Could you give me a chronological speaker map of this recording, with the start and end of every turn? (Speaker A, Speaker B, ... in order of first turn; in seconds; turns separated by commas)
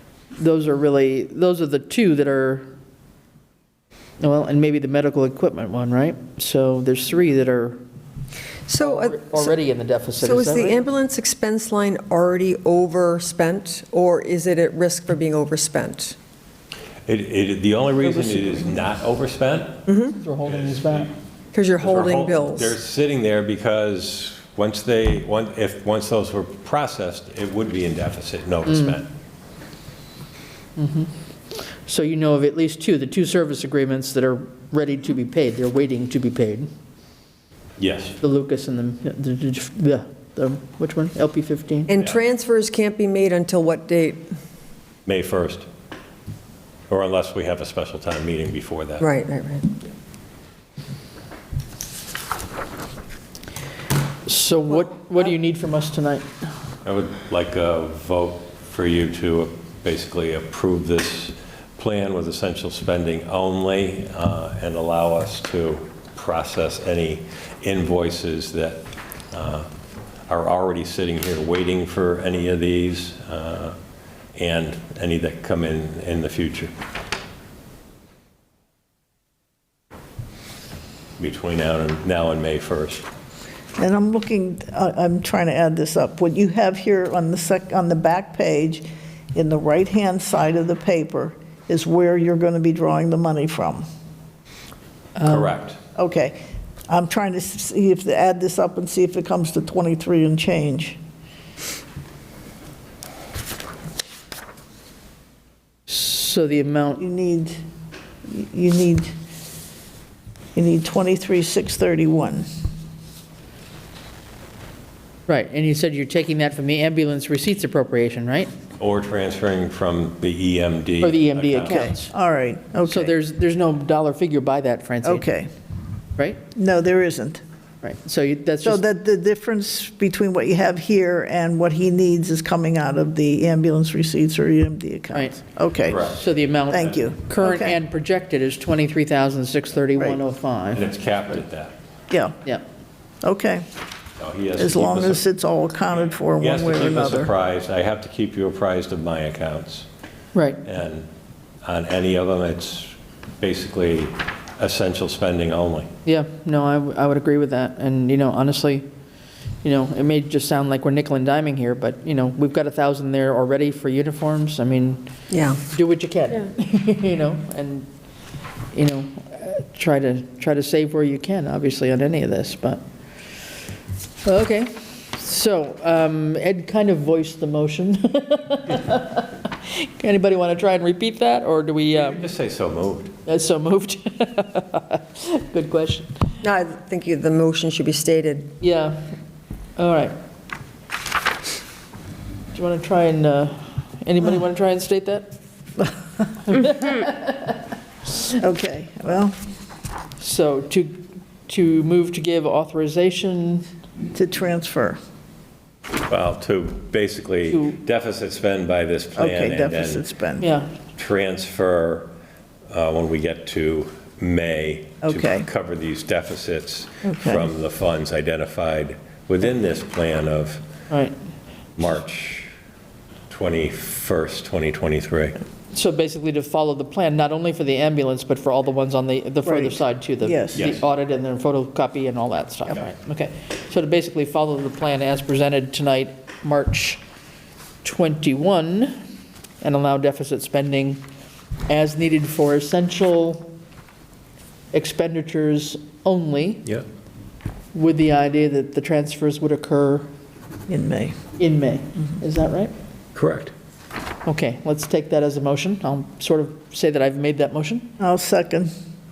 Speaker A: 0.4-2.7, Speaker A: 4.2-7.8, Speaker B: 8.7-9.5, Speaker A: 8.8-10.9, Speaker B: 10.2-16.2, Speaker C: 17.1-19.9, Speaker B: 19.9-20.2, Speaker A: 20.2-21.1, Speaker C: 20.5-21.1, Speaker B: 21.5-22.8, Speaker C: 21.8-29.1, Speaker A: 28.7-29.0, Speaker A: 30.8-36.7, Speaker C: 37.8-38.2, Speaker A: 38.2-42.0, Speaker B: 41.9-44.3, Speaker C: 45.1-45.7, Speaker C: 46.9-49.1, Speaker B: 49.0-49.8, Speaker A: 54.3-56.3, Speaker C: 56.8-69.7, Speaker C: 70.3-73.8, Speaker C: 74.4-76.7, Speaker C: 81.2-83.1, Speaker D: 83.8-93.8, Speaker A: 95.2-95.5, Speaker C: 95.2-95.8, Speaker D: 96.0-101.0, Speaker A: 105.9-107.0, Speaker D: 107.0-107.6, Speaker D: 108.3-109.1, Speaker D: 110.5-112.5, Speaker A: 115.3-118.5, Speaker C: 118.8-121.9, Speaker A: 121.0-122.1, Speaker D: 121.7-123.1, Speaker A: 122.8-125.3, Speaker D: 125.0-125.5, Speaker D: 126.5-127.4, Speaker A: 127.8-128.8, Speaker D: 128.6-136.1, Speaker A: 135.1-135.4, Speaker C: 135.9-136.2, Speaker A: 135.9-140.9, Speaker D: 136.7-137.8, Speaker C: 140.7-141.7, Speaker D: 142.1-142.4, Speaker D: 143.2-143.6, Speaker C: 144.2-145.2, Speaker D: 144.6-147.3, Speaker C: 146.4-149.9, Speaker A: 150.3-150.6, Speaker C: 150.6-151.1, Speaker C: 151.6-155.9, Speaker A: 156.1-158.9, Speaker A: 159.6-167.9, Speaker B: 165.3-165.6, Speaker A: 168.7-172.8, Speaker A: 174.2-182.2, Speaker C: 181.9-183.1, Speaker A: 183.3-186.2, Speaker B: 186.4-188.5, Speaker A: 188.6-189.1, Speaker A: 189.8-190.2, Speaker A: 192.5-195.3, Speaker A: 196.5-197.6, Speaker D: 198.4-199.4, Speaker A: 200.2-203.7, Speaker D: 204.1-205.0, Speaker C: 206.1-210.0, Speaker A: 207.5-207.8, Speaker D: 209.2-210.5, Speaker A: 210.4-210.8, Speaker C: 210.9-212.1, Speaker C: 212.7-220.6, Speaker D: 215.0-215.5, Speaker D: 217.1-217.5, Speaker A: 220.9-221.2, Speaker C: 221.8-222.5, Speaker C: 223.3-225.4, Speaker A: 225.7-237.0, Speaker D: 229.4-230.7, Speaker C: 230.6-230.8, Speaker A: 237.8-239.0, Speaker A: 239.6-241.0, Speaker A: 241.7-243.5, Speaker A: 244.7-246.7, Speaker A: 247.7-250.1, Speaker D: 250.7-251.2, Speaker A: 251.4-252.7, Speaker C: 253.2-253.5, Speaker A: 254.2-257.9, Speaker D: 258.0-258.7